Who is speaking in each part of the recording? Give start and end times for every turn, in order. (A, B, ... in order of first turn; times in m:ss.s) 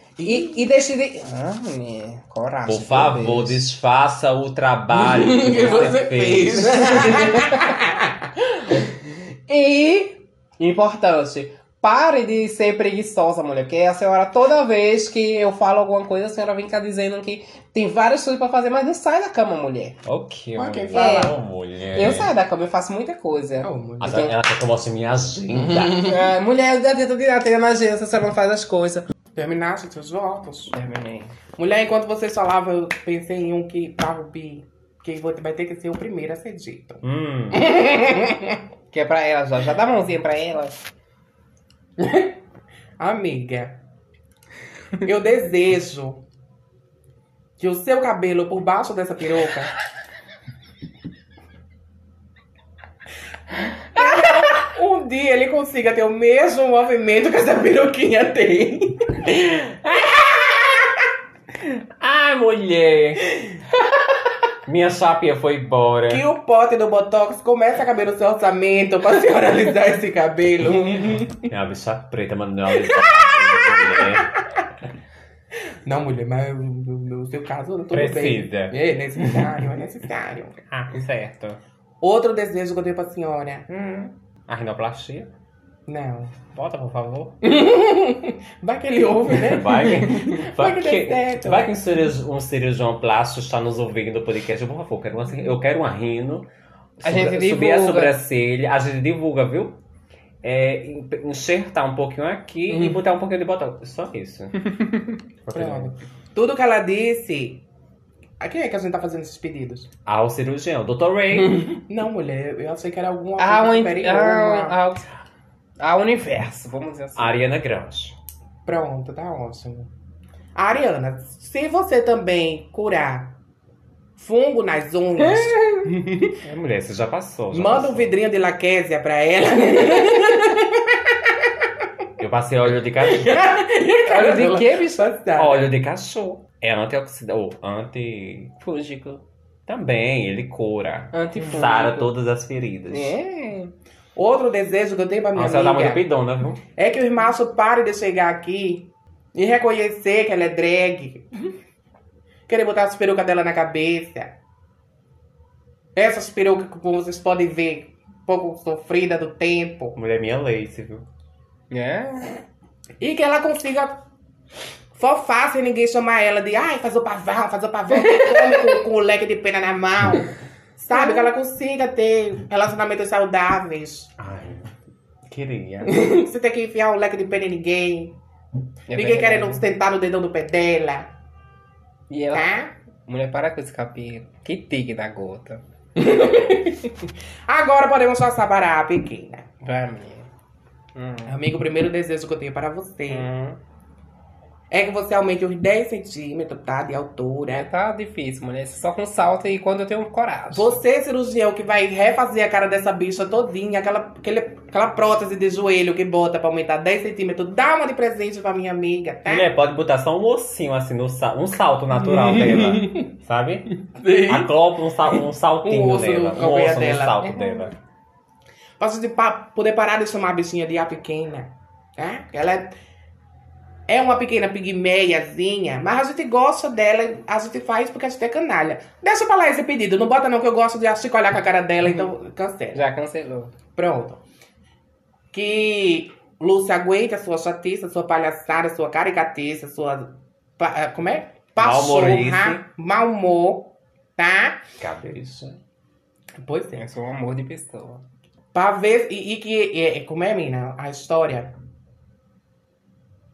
0:00.2-0:00.6 A
0:00.2-0:03.6 B
0:02.7-0:07.3 C
0:04.9-0:08.3 A
0:06.6-0:07.8 B
0:09.5-0:20.0 B
0:20.0-0:22.3 C
0:20.6-0:21.4 A
0:20.9-0:21.4 B
0:21.9-0:24.3 B
0:23.6-0:24.3 A
0:24.0-0:26.0 C
0:25.5-0:26.1 A
0:26.0-0:29.0 B
0:29.4-0:30.7 A
0:30.7-0:31.4 B
0:31.6-0:37.0 A
0:37.0-0:37.7 C
0:37.5-0:38.6 A
0:38.9-0:40.8 B
0:42.0-0:42.3 A
0:43.0-0:43.8 A
0:45.0-0:46.2 A
0:47.6-0:49.8 A
0:54.0-0:59.4 A
0:59.4-1:00.9 C
1:01.6-1:03.6 C
1:04.7-1:06.2 C
1:06.1-1:11.5 A
1:11.4-1:14.4 C
1:12.8-1:14.3 A
1:15.8-1:20.6 A
1:17.9-1:19.5 C
1:20.7-1:21.6 C
1:22.0-1:24.1 A
1:24.5-1:25.3 C
1:25.9-1:26.4 A
1:26.5-1:27.4 C
1:27.4-1:31.8 A
1:29.4-1:36.5 C
1:37.0-1:39.8 C
1:37.0-1:38.2 B
1:40.4-1:44.6 C
1:42.7-1:43.0 A
1:45.4-1:45.9 C
1:45.5-1:47.6 A
1:48.4-1:49.9 A
1:50.1-1:51.7 C
1:51.8-1:54.8 A
1:53.4-1:55.1 B
1:55.8-1:57.3 B
1:57.2-1:58.2 C
1:58.7-1:59.9 A
2:00.6-2:03.3 A
2:04.2-2:06.3 A
2:06.4-2:08.1 C
2:07.5-2:11.0 A
2:12.2-2:13.5 C
2:13.0-2:15.7 A
2:14.0-2:15.2 B
2:15.4-2:18.5 C
2:18.6-2:19.2 B
2:19.7-2:23.2 C
2:21.1-2:22.1 B
2:22.9-2:23.7 B
2:24.2-2:26.0 A
2:25.4-2:26.6 C
2:26.8-2:31.3 A
2:32.5-2:34.4 A
2:36.0-2:40.0 A
2:40.0-2:41.1 C
2:41.7-2:42.4 B
2:43.0-2:44.0 A
2:45.0-2:54.1 A
2:48.0-2:48.8 B
2:50.9-2:51.3 B
2:54.2-2:56.1 C
2:55.9-2:58.2 A
2:58.9-2:59.6 B
2:58.9-3:01.1 A
3:02.1-3:02.5 B
3:02.3-3:02.7 A
3:03.1-3:05.6 B
3:06.0-3:06.9 A
3:07.5-3:09.5 A
3:09.6-3:10.3 B
3:11.0-3:11.3 B
3:11.3-3:13.3 A
3:13.1-3:13.6 B
3:14.7-3:17.7 A
3:17.5-3:20.7 B
3:20.5-3:29.5 A
3:29.3-3:37.7 C
3:32.1-3:32.9 A
3:33.9-3:34.5 A
3:35.6-3:37.7 A
3:38.8-3:42.8 A
3:43.9-3:52.8 A
3:52.7-3:53.5 B
3:53.8-3:54.2 A
3:55.3-4:04.6 A
4:01.6-4:02.6 C
4:04.8-4:05.6 C
4:06.4-4:06.8 A
4:06.8-4:08.0 B
4:08.5-4:11.5 A